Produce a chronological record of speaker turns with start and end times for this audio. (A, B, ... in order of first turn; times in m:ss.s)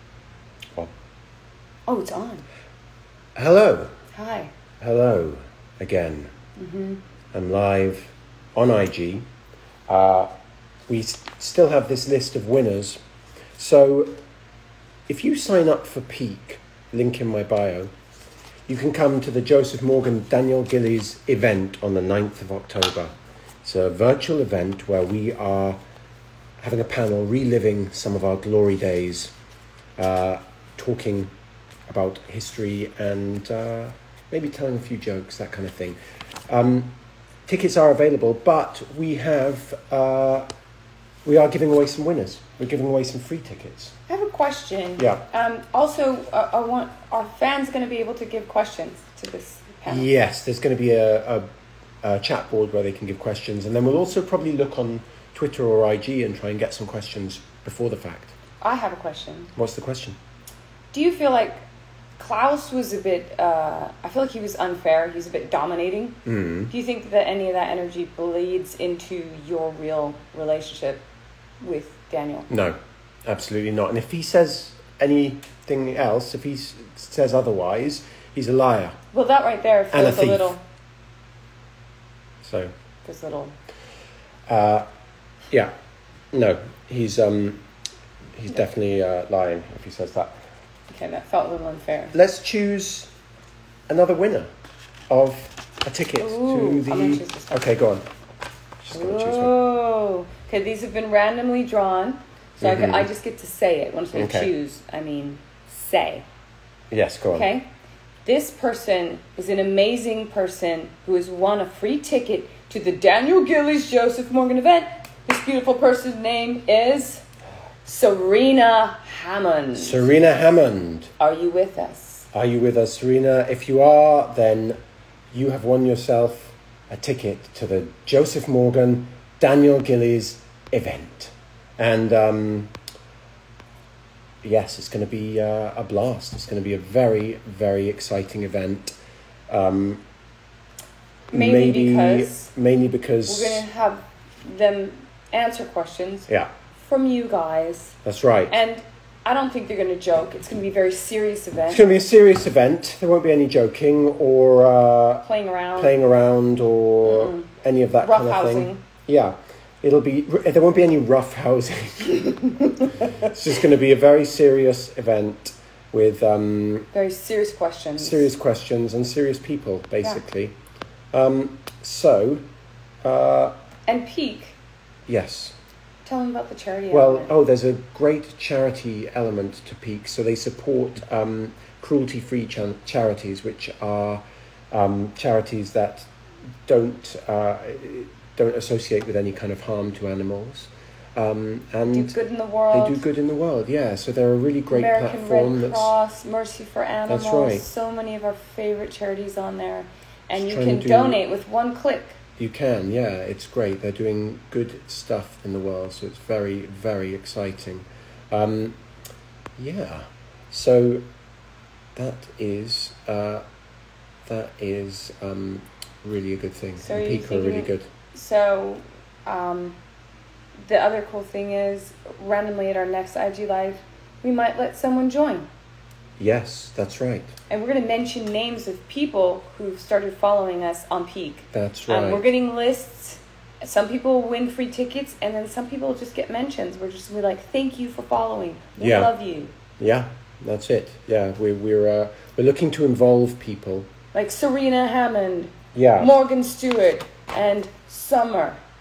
0:01.9-0:02.4 A
0:03.4-0:03.9 B
0:04.1-0:04.5 A
0:04.8-0:06.3 B
0:06.6-0:07.0 A
0:07.3-0:09.2 B
0:09.9-0:10.3 B
0:10.9-0:13.0 B
0:13.6-0:14.2 B
0:15.1-0:17.9 B
0:18.7-0:25.8 B
0:26.6-0:29.3 B
0:30.0-0:31.3 B
0:31.9-0:36.9 B
0:37.5-0:40.5 B
0:41.2-0:44.0 B
0:44.1-0:50.1 A
0:45.0-0:45.2 B
0:49.8-0:51.5 B
0:52.0-0:58.3 B
0:58.6-0:59.5 A
0:59.5-1:00.2 B
1:00.9-1:01.6 A
1:02.2-1:06.2 A
1:06.2-1:06.7 B
1:06.7-1:11.0 A
1:11.6-1:12.5 A
1:12.5-1:19.0 B
1:19.1-1:20.6 A
1:19.9-1:20.6 B
1:22.4-1:22.7 B
1:23.0-1:23.6 A
1:24.5-1:24.9 B
1:26.3-1:27.6 B
1:28.4-1:30.3 B
1:30.9-1:32.1 A
1:32.1-1:33.1 B
1:33.9-1:34.5 B
1:35.1-1:38.0 B
1:36.2-1:37.8 A
1:38.8-1:39.5 B
1:38.9-1:46.3 A
1:42.6-1:43.1 B
1:44.1-1:44.5 B
1:46.9-1:47.5 B
1:47.3-1:47.7 A
1:48.2-1:57.2 A
1:57.8-2:00.1 A
1:59.7-2:01.1 B
2:01.2-2:02.3 A
2:02.3-2:04.8 B
2:05.3-2:12.7 B
2:14.4-2:18.9 B
2:19.5-2:20.0 B
2:21.3-2:22.5 A
2:21.3-2:23.6 B
2:23.3-2:28.0 A
2:28.0-2:28.6 B
2:28.5-2:31.8 A
2:31.7-2:42.3 B
2:35.2-2:35.9 A
2:37.0-2:37.5 A
2:38.0-2:38.8 A
2:42.3-2:43.1 A
2:43.2-2:46.9 B
2:46.9-2:48.3 A
2:48.0-2:50.5 B
2:51.1-2:52.4 B
2:53.0-2:53.5 B
2:53.9-2:54.6 A
2:55.1-2:55.6 B
2:56.0-2:57.3 A
2:56.9-3:06.1 B
3:06.7-3:12.2 B
3:11.9-3:13.0 A
3:12.7-3:15.9 B
3:14.7-3:22.2 A
3:17.1-3:17.6 B
3:20.3-3:21.2 B
3:22.4-3:28.8 B
3:29.6-3:31.0 B
3:32.0-3:33.4 B
3:34.2-3:37.9 B
3:36.8-3:39.8 A
3:40.6-3:45.5 A
3:46.2-3:47.3 B
3:47.5-3:59.5 A
3:51.5-3:52.2 B
3:58.8-3:59.1 B
3:59.8-4:03.9 B
4:04.1-4:08.6 A
4:05.7-4:06.2 B